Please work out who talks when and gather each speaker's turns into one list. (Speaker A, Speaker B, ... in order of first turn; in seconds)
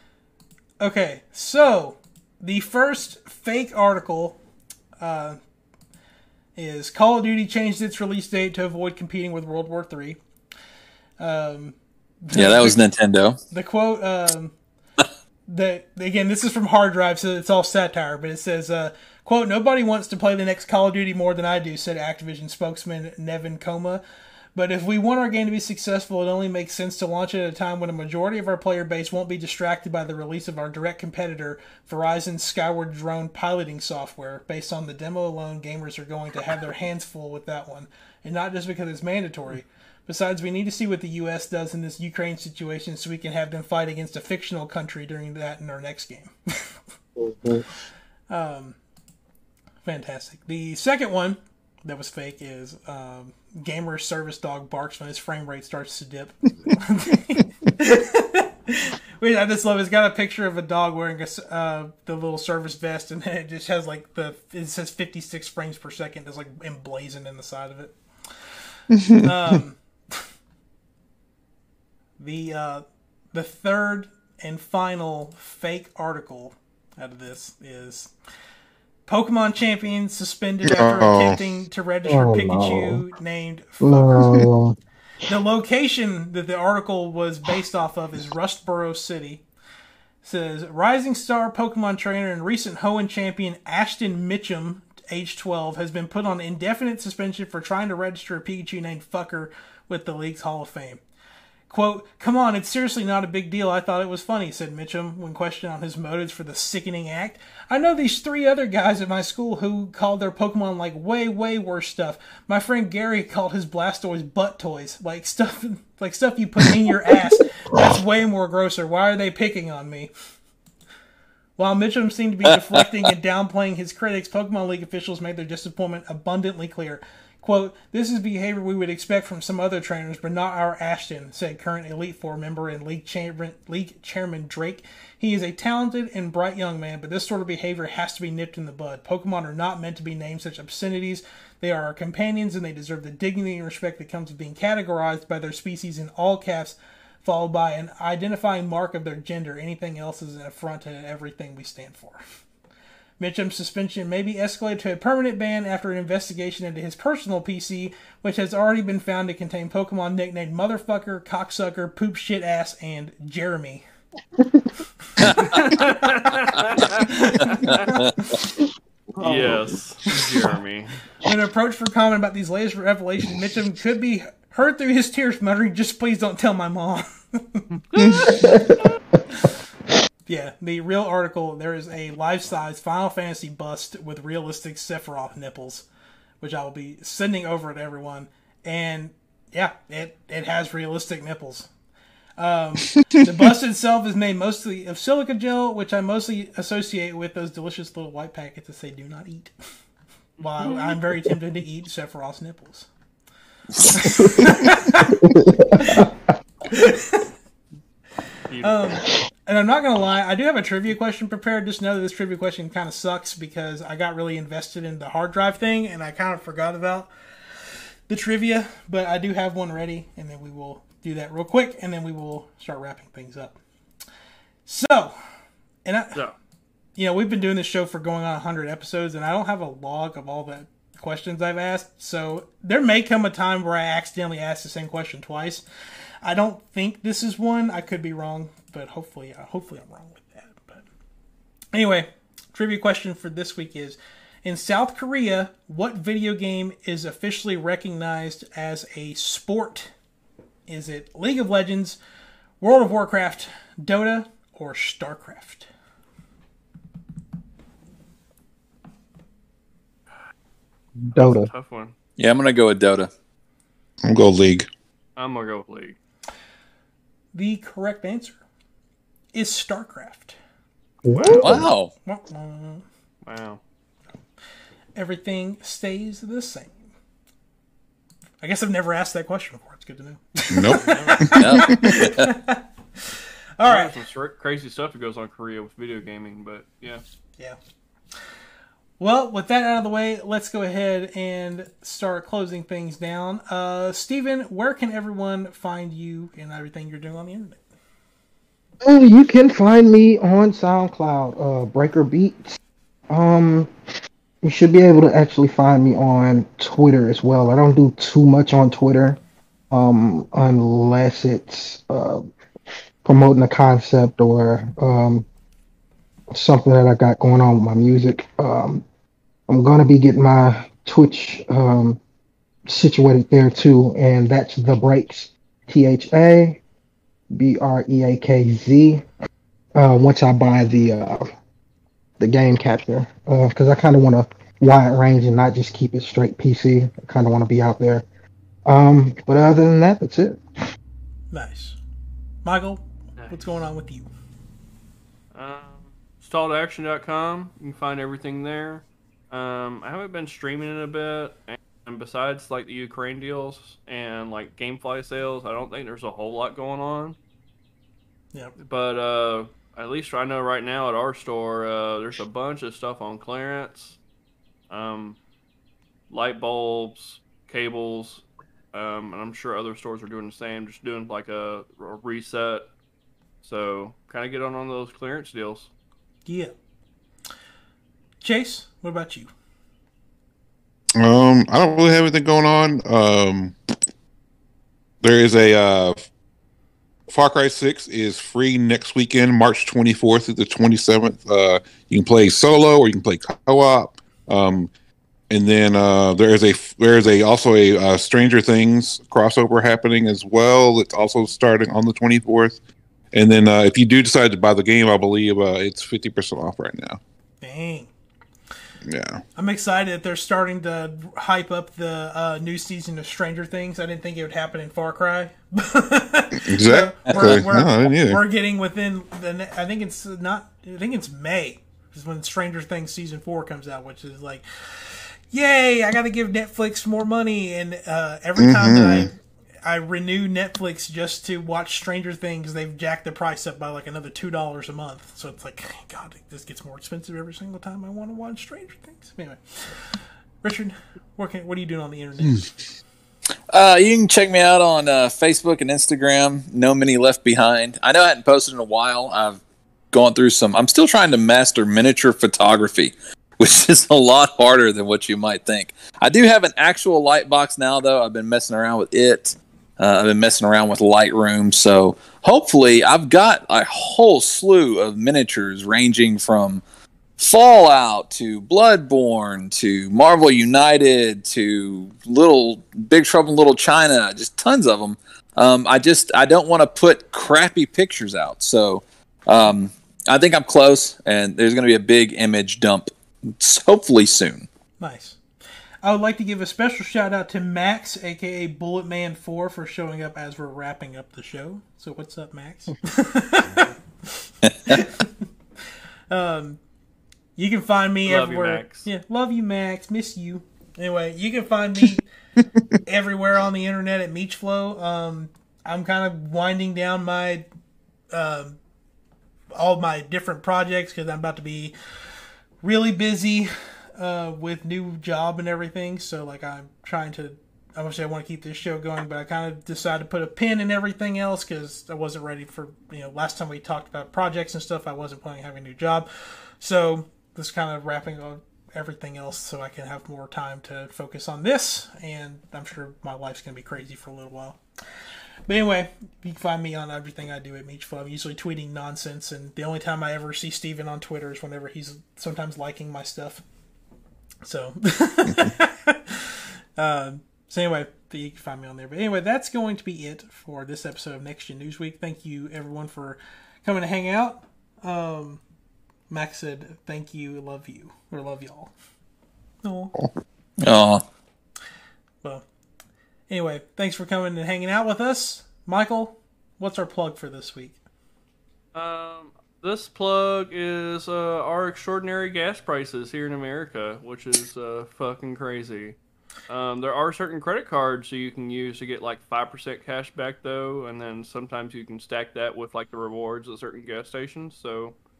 Speaker A: 0.8-4.4, 5.0-5.4, 6.5-10.2, 11.2-12.8, 13.5-14.5, 15.5-24.0, 24.5-46.7, 48.3-48.8, 49.8-67.9, 69.2-70.3, 72.2-78.1, 79.1-84.2, 85.2-89.4, 90.2-101.0, 101.7-120.1, 121.6-152.2, 153.2-163.8, 165.2-168.3, 171.2-177.6, 180.3-185.8, 186.4-191.7, 192.4-199.5, 200.4-202.9, 203.8-206.1, 206.6-207.3, 208.6-217.1, 218.1-223.6, 224.7-225.1, 225.8-226.2, 227.0-235.6, 236.2-240.8, 241.7-249.9, 250.7-252.0, 252.6-255.7, 267.3-268.4, 269.3-270.4, 271.2-272.8, 274.9-276.8, 278.4-284.0, 289.0-297.6, 341.3-341.8, 342.4-344.1, 376.2-376.5, 378.2-379.3, 407.4-407.9, 409.4-442.5, 484.8-485.2, 485.8-495.1, 496.1-496.6, 497.4-502.1, 502.8-507.5, 508.1-508.6, 509.5-511.7, 512.6-534.6, 535.5-543.4, 544.4-555.4, 556.1-558.7, 559.6-559.9, 563.3-567.8
Speaker B: 12.3-13.4, 165.2-165.6, 167.8-168.3, 262.2-263.1, 271.4-271.9, 281.4-282.3, 417.1-417.4, 443.5-449.4, 449.9-466.6, 467.2-484.5, 560.6-561.0
Speaker C: 47.2-47.6, 82.0-83.0, 83.8-84.8, 169.2-169.7, 178.3-178.8, 204.0-206.1, 261.0-261.5, 271.0-271.7, 298.8-302.6, 303.1-303.7, 304.4-309.2, 309.7-312.2, 313.0-315.2, 316.3-318.8, 319.5-322.0, 322.7-326.6, 327.3-329.0, 329.7-331.2, 332.2-338.0, 338.6-340.4
Speaker D: 69.0-69.3, 80.7-81.4, 178.0-178.3, 264.0-264.7, 280.5-282.1, 381.0-383.6, 385.0-386.1, 387.1-394.7, 395.3-402.6, 403.1-407.0, 408.9-409.2, 416.4-418.2, 428.4-429.1
Speaker E: 165.5-167.9, 169.2-171.0, 177.9-178.7, 200.6-201.0, 208.5-208.9, 261.1-261.9, 265.2-265.9, 273.2-273.6, 280.7-281.4, 283.6-287.0, 345.3-357.2, 358.6-364.0, 364.7-365.2, 366.1-372.7, 373.4-375.7, 498.0-498.9, 568.7-576.0, 576.5-585.0